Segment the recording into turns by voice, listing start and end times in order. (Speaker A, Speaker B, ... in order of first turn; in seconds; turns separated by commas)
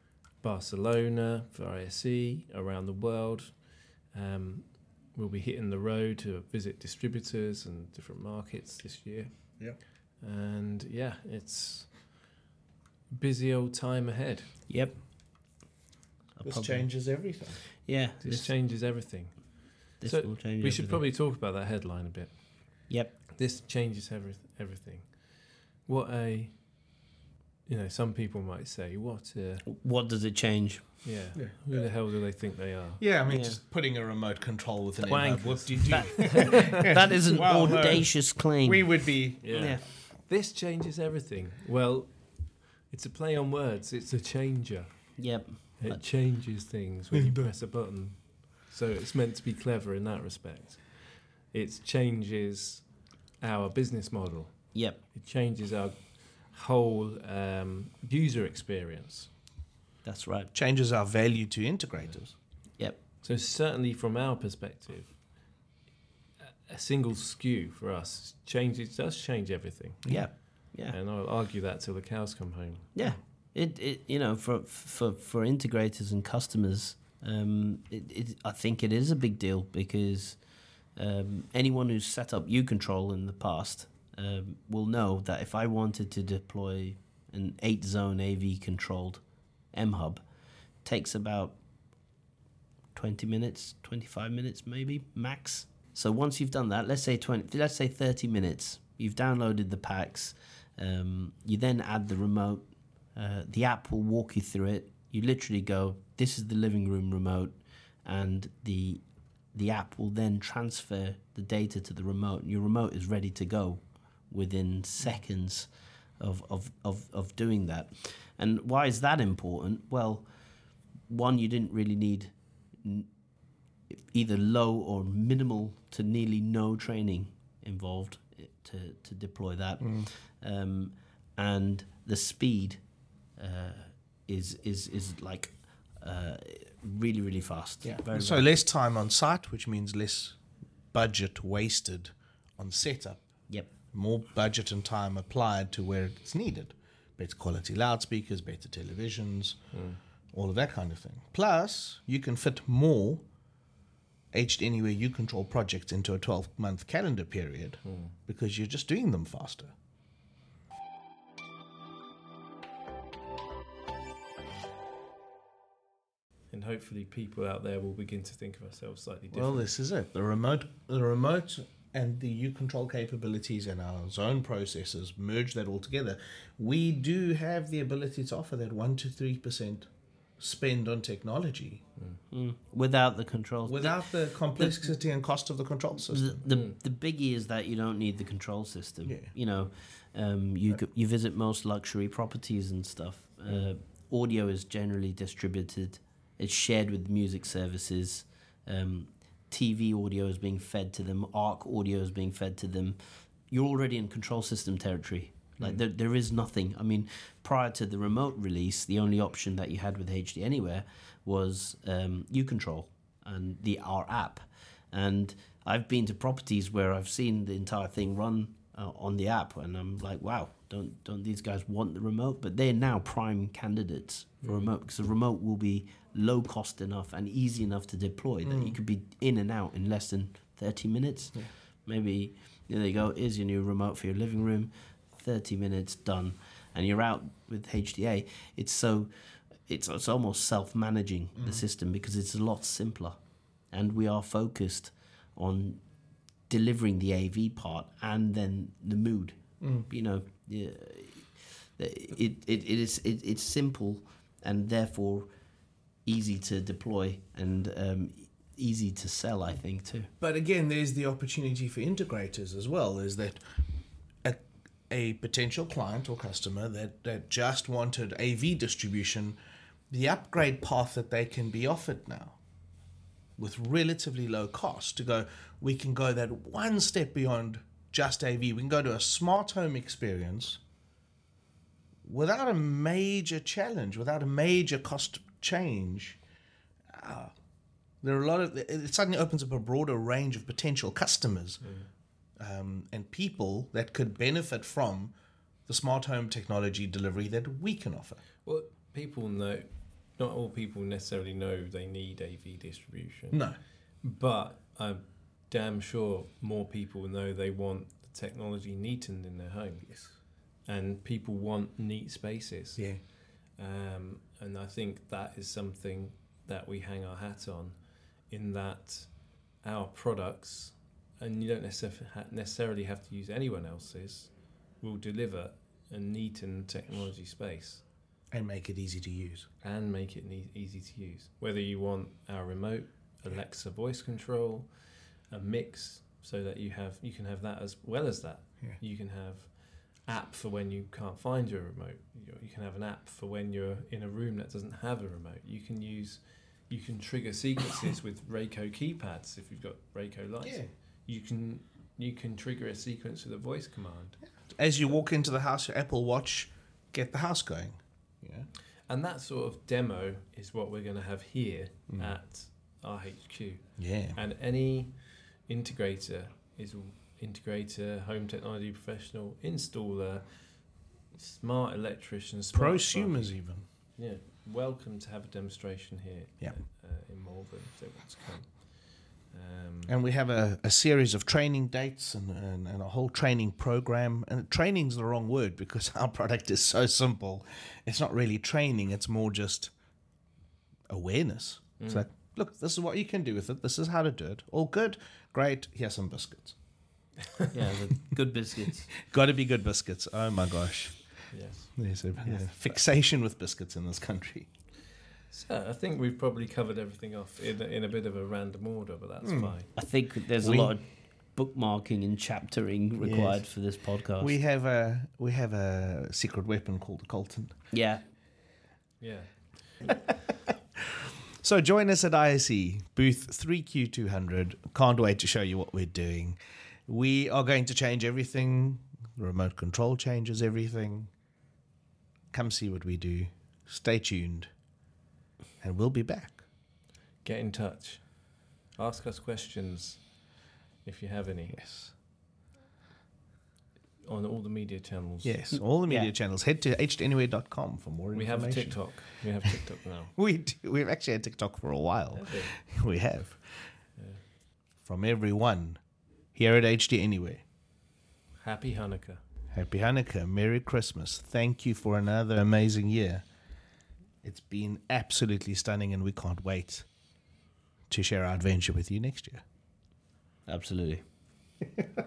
Speaker A: 0.4-9.6, Speaker A: 10.2-12.0, Speaker A: 13.1-14.5, Speaker B: 14.7-15.0, Speaker B: 16.4-16.9, Speaker C: 16.4-17.6, Speaker B: 17.9-18.5, Speaker A: 18.2-19.5, Speaker A: 20.0-22.4, Speaker B: 20.0-21.0, Speaker B: 22.9-23.1, Speaker A: 23.4-25.2, Speaker A: 25.9-26.5, Speaker A: 27.7-29.7, Speaker B: 29.7-30.9, Speaker A: 31.0-33.0, Speaker C: 31.4-31.9, Speaker C: 33.0-39.6, Speaker B: 33.3-33.6, Speaker A: 35.0-37.0, Speaker B: 35.9-38.9, Speaker A: 39.4-42.1, Speaker B: 39.5-39.8, Speaker A: 42.9-44.9, Speaker B: 45.2-46.0, Speaker A: 45.8-50.9, Speaker A: 51.5-52.9, Speaker A: 53.4-54.6, Speaker B: 54.7-55.0, Speaker A: 55.1-59.3, Speaker B: 60.0-60.5, Speaker C: 60.5-62.4, Speaker A: 63.2-65.2, Speaker A: 66.7-70.0, Speaker B: 70.1-71.0, Speaker A: 70.9-72.9, Speaker B: 73.0-80.4, Speaker B: 81.0-89.2, Speaker B: 89.7-90.2, Speaker B: 90.8-91.6, Speaker B: 93.0-109.0, Speaker B: 109.5-120.3, Speaker B: 121.1-123.1, Speaker B: 123.9-132.8, Speaker C: 129.8-130.1, Speaker B: 133.4-138.5, Speaker C: 137.8-140.4, Speaker C: 140.9-143.2, Speaker C: 143.9-149.6, Speaker A: 149.7-150.0, Speaker C: 150.3-153.2, Speaker C: 154.3-159.7, Speaker A: 157.8-158.1, Speaker A: 166.5-169.7, Speaker C: 169.3-179.9, Speaker C: 180.4-181.8, Speaker B: 182.3-184.9, Speaker C: 183.7-186.4, Speaker B: 186.1-203.0, Speaker A: 186.5-186.8, Speaker C: 189.1-189.3, Speaker B: 203.5-239.1, Speaker C: 228.4-228.8, Speaker B: 239.6-243.2, Speaker B: 243.7-245.8, Speaker B: 246.5-255.3, Speaker C: 249.6-249.9, Speaker B: 256.1-260.1, Speaker C: 260.2-263.4, Speaker C: 264.2-269.4, Speaker C: 269.9-272.4, Speaker C: 273.4-280.6, Speaker C: 282.1-286.2, Speaker C: 286.9-287.3, Speaker C: 288.0-291.6, Speaker A: 291.6-291.9, Speaker C: 292.4-295.1, Speaker C: 295.7-298.2, Speaker A: 298.4-299.7, Speaker A: 300.2-303.4, Speaker C: 303.3-303.6, Speaker A: 304.0-309.9, Speaker C: 309.9-310.1, Speaker A: 310.7-312.9, Speaker A: 313.6-317.8, Speaker A: 318.3-319.1, Speaker A: 319.6-327.8, Speaker C: 328.3-329.5, Speaker A: 329.6-334.7, Speaker A: 335.3-354.2, Speaker C: 350.4-350.7, Speaker C: 354.5-358.5, Speaker A: 358.9-370.4, Speaker C: 361.9-362.2, Speaker C: 363.8-364.2, Speaker A: 371.1-373.3, Speaker C: 372.5-373.6, Speaker A: 374.0-378.6, Speaker A: 379.3-379.9, Speaker C: 379.9-389.7, Speaker C: 390.9-396.6, Speaker A: 391.8-392.1, Speaker B: 397.5-398.9, Speaker C: 399.0-401.0, Speaker A: 401.3-401.7, Speaker C: 401.8-404.5, Speaker A: 405.3-409.7, Speaker C: 409.2-409.6, Speaker B: 409.8-410.8, Speaker C: 410.4-410.7, Speaker B: 411.4-414.4, Speaker C: 413.0-413.4, Speaker C: 414.2-417.6, Speaker B: 417.7-418.0, Speaker A: 419.0-419.3, Speaker C: 421.4-431.1, Speaker C: 432.3-434.5, Speaker C: 435.6-436.4, Speaker A: 437.2-438.0, Speaker A: 438.8-440.0, Speaker A: 440.9-441.6, Speaker C: 441.5-441.9, Speaker A: 444.0-445.4, Speaker C: 445.2-449.1, Speaker B: 445.6-446.1, Speaker A: 448.1-450.1, Speaker C: 450.2-453.7, Speaker A: 452.1-452.5, Speaker A: 454.0-454.2, Speaker C: 454.9-455.8, Speaker C: 456.4-457.4, Speaker A: 458.4-459.2, Speaker C: 459.5-463.2, Speaker C: 464.2-466.9, Speaker C: 467.9-469.4, Speaker B: 470.5-471.0